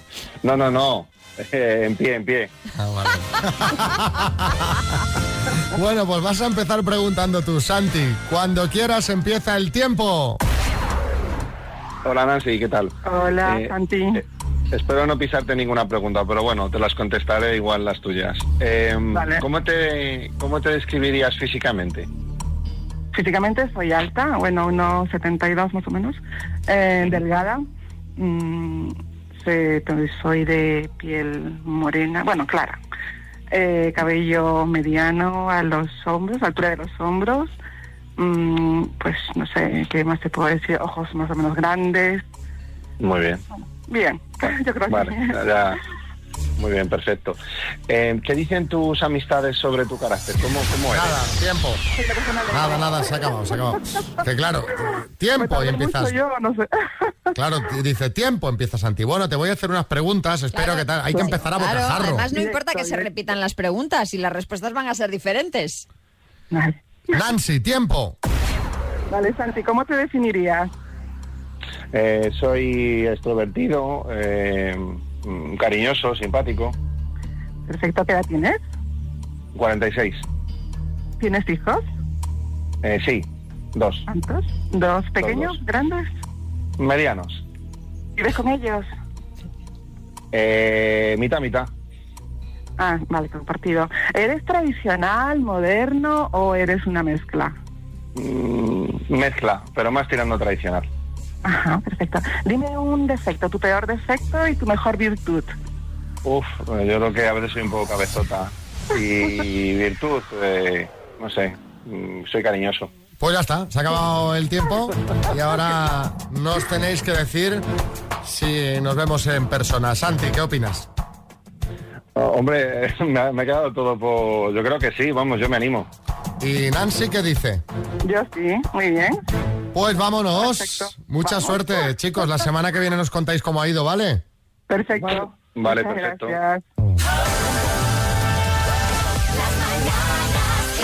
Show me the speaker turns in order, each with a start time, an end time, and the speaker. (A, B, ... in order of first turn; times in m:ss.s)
0:00.4-0:02.5 A
0:02.8-0:04.8 B
0:05.7-0:10.4 B
0:12.0-0:22.1 A
0:13.0-0:14.2 C
0:19.1-0:19.4 C
0:23.1-0:27.7 C
0:28.2-0:32.8 C
0:33.5-0:37.5 C
0:38.2-0:42.2 C
0:43.0-0:43.4 A
0:43.9-0:45.7 C
0:44.9-0:45.8 A
0:46.6-0:47.4 A
0:47.9-0:51.2 A
0:50.9-0:51.8 B
0:52.0-0:53.3 C
0:52.5-0:56.2 B
0:55.4-0:57.1 C
0:57.4-1:02.3 B
1:00.5-1:05.8 D
1:02.3-1:03.1 C
1:06.5-1:06.8 C
1:07.1-1:08.2 B
1:09.1-1:10.7 C
1:11.9-1:16.8 A
1:17.7-1:18.6 C
1:19.6-1:20.2 A
1:21.2-1:21.8 C
1:22.8-1:24.0 A
1:24.1-1:26.1 C
1:25.2-1:25.6 A
1:26.8-1:27.4 A
1:28.2-1:28.9 C
1:30.3-1:31.7 A
1:32.8-1:37.6 C
1:38.2-1:40.9 A
1:41.4-1:45.5 C
1:46.2-1:52.9 A
1:53.2-1:57.7 B
1:58.2-2:00.9 B
2:02.2-2:05.9 A
2:06.4-2:07.6 B
2:08.0-2:09.2 C
2:09.7-2:14.2 B
2:10.4-2:11.8 C
2:14.7-2:16.6 C
2:15.0-2:16.4 A